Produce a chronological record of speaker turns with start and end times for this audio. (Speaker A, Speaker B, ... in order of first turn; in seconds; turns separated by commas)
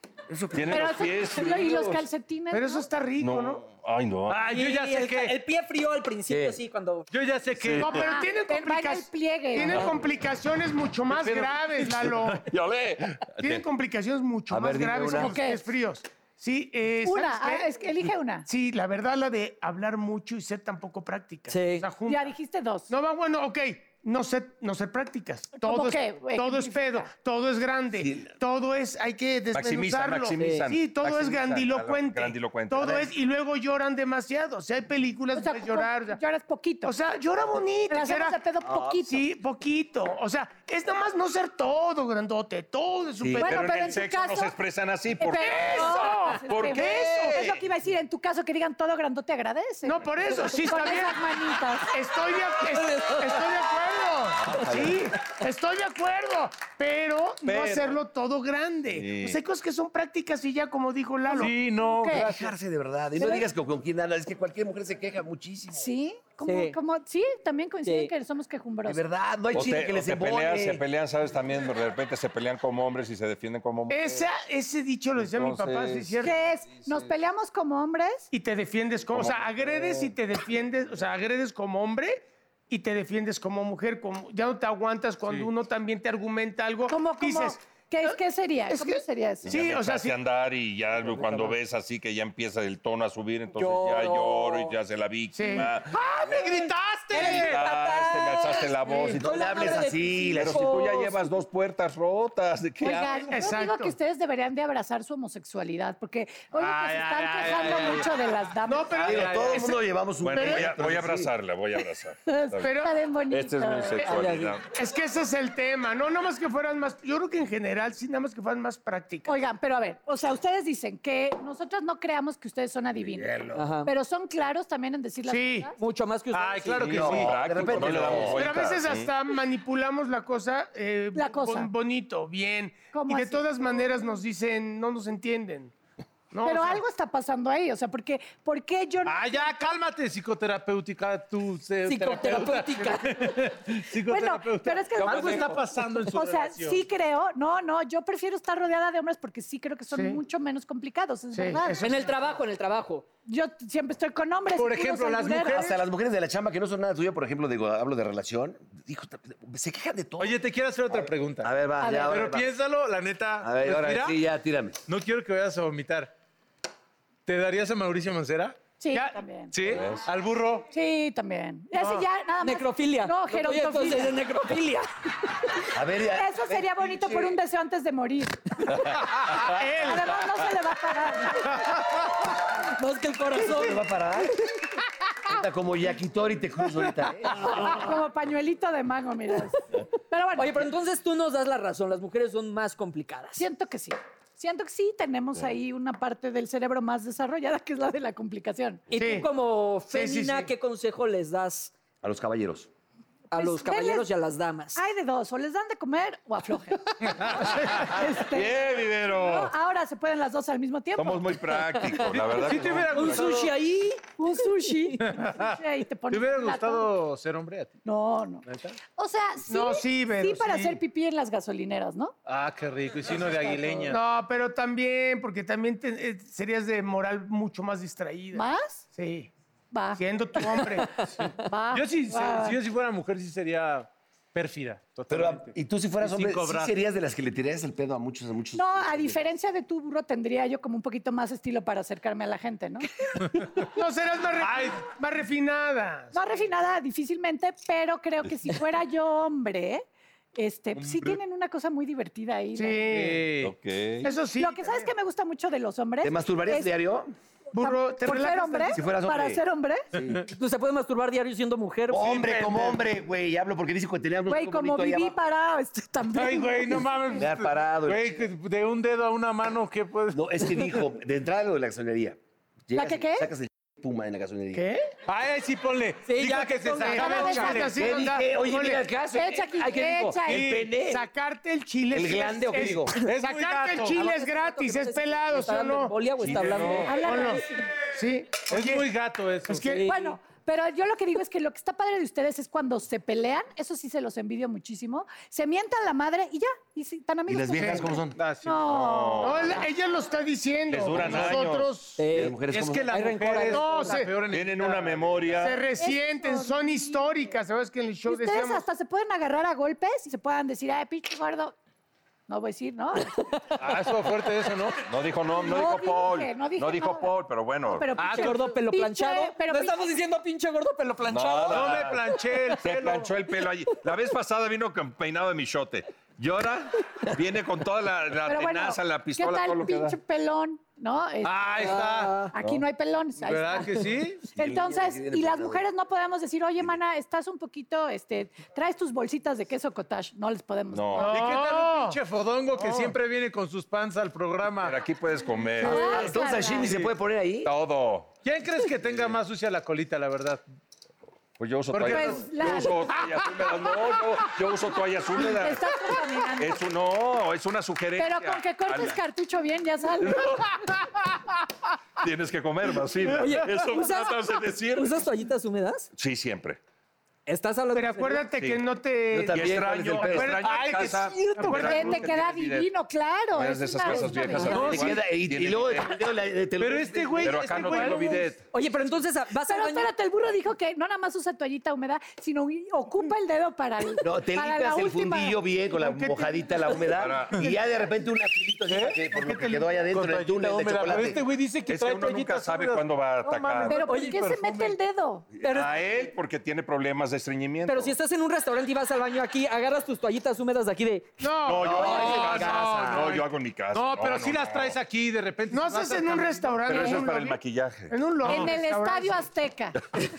Speaker A: 0.3-2.0, Speaker B: 0.5-1.7, Speaker C: 0.7-2.8, Speaker D: 2.5-3.6, Speaker B: 3.2-4.5, Speaker E: 4.3-5.4, Speaker F: 4.5-7.1, Speaker A: 6.3-6.6, Speaker E: 7.1-8.1, Speaker B: 7.5-8.1, Speaker D: 7.8-12.4, Speaker C: 8.1-9.9, Speaker B: 9.6-9.9, Speaker B: 11.1-13.6, Speaker D: 13.4-17.7, Speaker A: 14.5-15.4, Speaker C: 15.1-15.6, Speaker C: 17.0-18.5, Speaker D: 18.5-22.3, Speaker F: 21.5-21.8, Speaker C: 22.1-22.9, Speaker D: 22.9-36.2, Speaker C: 25.6-27.1, Speaker A: 28.0-28.3, Speaker B: 29.5-33.1, Speaker F: 30.4-30.6, Speaker C: 35.3-36.9, Speaker D: 36.8-38.4, Speaker C: 37.9-39.2, Speaker D: 39.0-43.9, Speaker C: 43.4-44.5, Speaker B: 43.4-46.0, Speaker C: 45.2-50.0, Speaker D: 45.3-47.5, Speaker B: 46.5-47.6, Speaker D: 49.8-51.2, Speaker C: 50.7-51.9, Speaker D: 51.9-61.5, Speaker F: 52.7-53.6, Speaker A: 54.7-55.1, Speaker B: 57.4-58.0, Speaker B: 58.9-59.4, Speaker C: 61.3-62.3, Speaker E: 61.4-62.5, Speaker A: 62.0-65.8, Speaker C: 65.7-69.0, Speaker F: 66.4-66.7, Speaker F: 67.8-68.1, Speaker A: 68.8-70.8, Speaker B: 69.5-74.2, Speaker D: 73.9-76.3, Speaker B: 75.2-77.1, Speaker C: 76.2-78.3, Speaker D: 78.3-88.2, Speaker B: 79.1-80.1, Speaker C: 86.9-89.5, Speaker D: 88.7-90.2, Speaker B: 89.4-96.0, Speaker E: 91.0-91.5, Speaker F: 93.5-94.7, Speaker D: 95.3-95.7, Speaker F: 95.9-96.6, Speaker E: 96.1-97.6, Speaker F: 97.1-101.1, Speaker B: 97.1-99.8, Speaker A: 99.1-101.1, Speaker B: 100.3-103.2, Speaker C: 102.8-109.1, Speaker D: 103.3-103.9, Speaker E: 106.5-108.1, Speaker D: 108.6-110.7, Speaker A: 108.9-111.3, Speaker E: 109.1-109.6, Speaker B: 110.2-112.7, Speaker C: 112.3-114.2, Speaker D: 112.6-112.9, Speaker B: 113.3-114.7, Speaker F: 114.0-114.5, Speaker D: 114.7-119.3, Speaker C: 119.2-123.3, Speaker A: 123.0-123.7, Speaker F: 123.5-123.9, Speaker C: 123.8-125.7, Speaker D: 125.3-125.7, Speaker F: 125.8-128.3, Speaker E: 126.3-127.3, Speaker A: 126.8-128.5, Speaker B: 127.1-129.1, Speaker D: 128.3-135.7, Speaker C: 131.1-131.7, Speaker C: 132.9-133.5, Speaker D: 136.3-136.8, Speaker C: 136.4-139.6, Speaker E: 139.0-146.8, Speaker F: 141.8-143.4, Speaker C: 144.1-151.8, Speaker B: 145.1-145.4, Speaker D: 149.9-150.2, Speaker D: 151.3-152.1, Speaker F: 151.8-153.1, Speaker C: 153.3-155.7, Speaker E: 154.6-155.8, Speaker A: 155.5-160.4, Speaker E: 160.2-161.5, Speaker A: 160.9-162.5, Speaker C: 161.8-162.3, Speaker E: 162.1-164.2, Speaker A: 163.4-164.8, Speaker E: 164.9-166.1, Speaker E: 167.2-168.6, Speaker C: 168.8-169.5, Speaker E: 169.5-170.7, Speaker B: 169.6-170.1, Speaker C: 170.7-174.1, Speaker D: 171.8-172.1, Speaker F: 172.4-174.9, Speaker A: 175.7-177.4, Speaker C: 176.1-178.7, Speaker D: 179.5-180.2, Speaker C: 179.8-181.6, Speaker F: 182.5-183.9, Speaker A: 183.3-184.4, Speaker A: 185.2-187.4, Speaker C: 187.3-190.7, Speaker F: 190.3-193.4, Speaker C: 193.4-198.8, Speaker F: 198.9-201.7, Speaker D: 198.9-199.3, Speaker D: 199.9-200.5, Speaker A: 202.0-202.7, Speaker F: 203.3-204.8, Speaker C: 203.3-204.1, Speaker C: 204.7-211.4, Speaker B: 207.7-209.5, Speaker B: 211.0-213.3, Speaker E: 212.0-213.5, Speaker F: 212.9-214.9, Speaker C: 214.2-216.9, Speaker E: 215.0-215.6, Speaker E: 216.1-217.8, Speaker C: 217.8-218.4, Speaker E: 218.4-218.8, Speaker C: 218.9-222.1, Speaker D: 219.5-220.8, Speaker E: 222.2-224.0, Speaker D: 223.9-228.4, Speaker C: 228.3-228.8, Speaker D: 228.9-229.3, Speaker C: 229.7-230.0, Speaker D: 230.0-231.1, Speaker C: 231.4-232.6, Speaker E: 231.7-236.8, Speaker A: 235.1-239.2, Speaker C: 238.5-242.9, Speaker D: 243.6-246.1, Speaker E: 244.4-244.8, Speaker C: 246.1-249.8, Speaker C: 250.3-252.8, Speaker E: 250.8-251.2, Speaker D: 252.6-253.3, Speaker E: 252.9-253.5, Speaker B: 253.4-254.1, Speaker D: 254.0-254.9, Speaker C: 254.3-256.7, Speaker A: 256.0-257.1, Speaker D: 257.5-258.8, Speaker C: 257.6-259.9, Speaker A: 258.7-260.2, Speaker F: 260.1-262.2, Speaker A: 261.9-265.1, Speaker E: 262.2-262.8, Speaker C: 264.3-267.2, Speaker E: 266.1-270.2, Speaker A: 267.2-268.2, Speaker A: 270.1-272.2, Speaker A: 272.7-274.6, Speaker C: 272.7-273.3, Speaker D: 274.5-274.9, Speaker E: 275.1-277.7, Speaker F: 276.1-277.7, Speaker D: 276.9-278.8, Speaker C: 276.9-277.2, Speaker A: 277.8-281.1, Speaker C: 279.1-280.5, Speaker E: 280.3-280.7, Speaker D: 280.8-286.4, Speaker A: 281.9-283.0, Speaker E: 283.0-283.9, Speaker F: 283.9-287.3, Speaker E: 286.2-286.9, Speaker A: 286.3-286.7, Speaker C: 286.9-287.6, Speaker D: 287.0-288.9, Speaker E: 288.5-289.7, Speaker D: 289.4-289.9, Speaker F: 289.6-290.1, Speaker C: 289.9-299.6, Speaker A: 297.3-298.1, Speaker D: 297.6-297.9, Speaker E: 298.1-298.6, Speaker B: 298.6-299.6, Speaker D: 299.2-302.0, Speaker B: 300.7-301.7, Speaker E: 301.0-301.4, Speaker F: 302.0-304.0, Speaker A: 302.1-302.9, Speaker E: 302.4-305.4, Speaker D: 303.5-304.1, Speaker B: 304.2-305.6, Speaker D: 305.4-308.6, Speaker C: 305.8-307.1, Speaker C: 308.1-311.5, Speaker C: 312.3-313.1, Speaker E: 313.6-314.8, Speaker B: 314.9-317.9, Speaker C: 315.3-317.1, Speaker C: 317.6-319.8, Speaker F: 318.0-322.1, Speaker E: 318.0-318.4, Speaker B: 321.1-322.0, Speaker E: 321.5-323.1, Speaker B: 322.6-330.0, Speaker C: 328.2-341.2, Speaker E: 331.2-332.3, Speaker F: 331.6-332.3, Speaker E: 333.2-334.3, Speaker A: 334.3-335.6, Speaker B: 340.7-341.2, Speaker D: 341.0-342.0, Speaker E: 341.1-344.8, Speaker D: 342.6-342.9, Speaker B: 344.6-346.1, Speaker C: 345.6-346.7, Speaker A: 345.6-347.5, Speaker B: 347.4-348.1, Speaker E: 348.2-350.4, Speaker B: 348.9-349.1, Speaker B: 351.4-355.8, Speaker E: 351.7-352.5, Speaker C: 351.8-352.9, Speaker C: 355.2-356.6, Speaker B: 356.4-359.0, Speaker C: 358.0-360.4, Speaker B: 362.0-364.9, Speaker F: 363.2-365.9, Speaker B: 366.0-366.6, Speaker F: 367.3-368.2, Speaker D: 367.7-372.0, Speaker B: 368.4-368.6, Speaker A: 369.1-370.3, Speaker B: 369.2-372.7, Speaker E: 370.3-372.0, Speaker C: 371.5-374.7, Speaker B: 373.3-376.0, Speaker E: 374.4-374.9, Speaker A: 374.5-377.4, Speaker E: 376.6-378.3, Speaker B: 377.2-378.4, Speaker C: 377.7-378.2, Speaker F: 378.5-379.9, Speaker C: 379.5-385.4, Speaker A: 384.0-391.2, Speaker D: 385.8-386.4, Speaker B: 386.9-387.4, Speaker E: 388.7-389.0, Speaker D: 389.2-389.6, Speaker E: 389.8-394.7, Speaker B: 391.7-393.8, Speaker C: 393.6-395.3, Speaker F: 393.8-394.2, Speaker B: 395.4-397.9, Speaker F: 395.4-395.7, Speaker F: 397.7-402.2, Speaker D: 401.2-403.0, Speaker B: 401.4-404.8, Speaker A: 401.7-403.0, Speaker E: 401.8-406.6, Speaker D: 405.5-407.4, Speaker B: 406.6-408.5, Speaker D: 407.9-409.3, Speaker C: 408.2-409.8